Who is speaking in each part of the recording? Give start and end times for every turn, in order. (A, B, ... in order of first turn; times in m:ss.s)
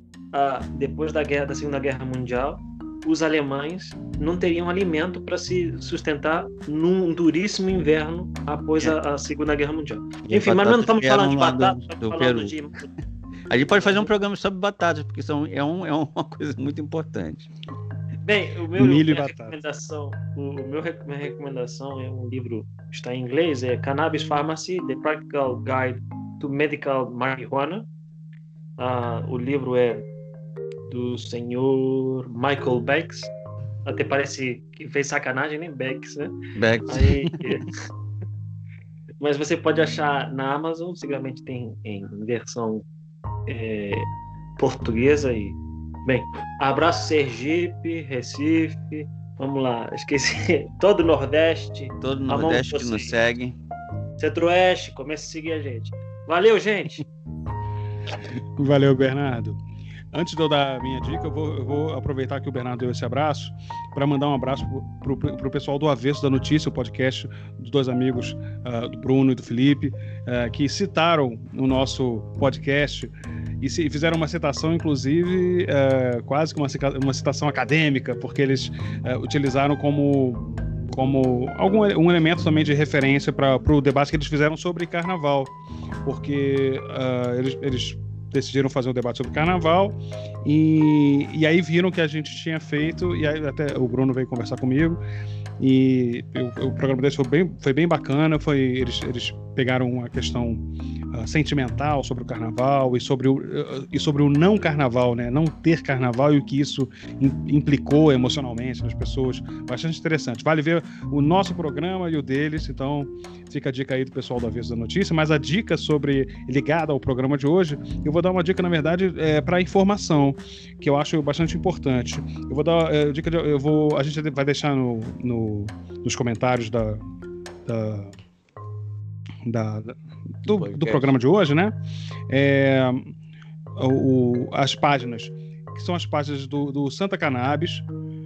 0:00.3-0:12.9 A
0:10.2-0:12.5 B
0:13.5-0:17.5 B
0:13.7-0:14.1 A
0:18.2-0:27.9 A
0:18.8-0:19.6 C
0:28.8-0:30.0 A
0:30.9-0:33.3 A
0:33.8-0:36.3 A
0:36.6-0:37.6 B
0:36.9-0:37.7 A
0:39.2-0:42.8 A
0:43.5-0:44.1 A
0:44.6-0:53.1 A
0:52.0-0:53.6 B
0:54.2-0:57.0 A
0:58.6-0:59.6 C
1:00.1-1:25.5 C
1:26.0-1:35.0 C
1:35.6-2:07.0 C
2:07.6-2:08.1 C
2:09.4-2:11.7 C
2:10.5-2:11.1 B
2:12.3-2:13.1 C
2:13.8-2:17.8 C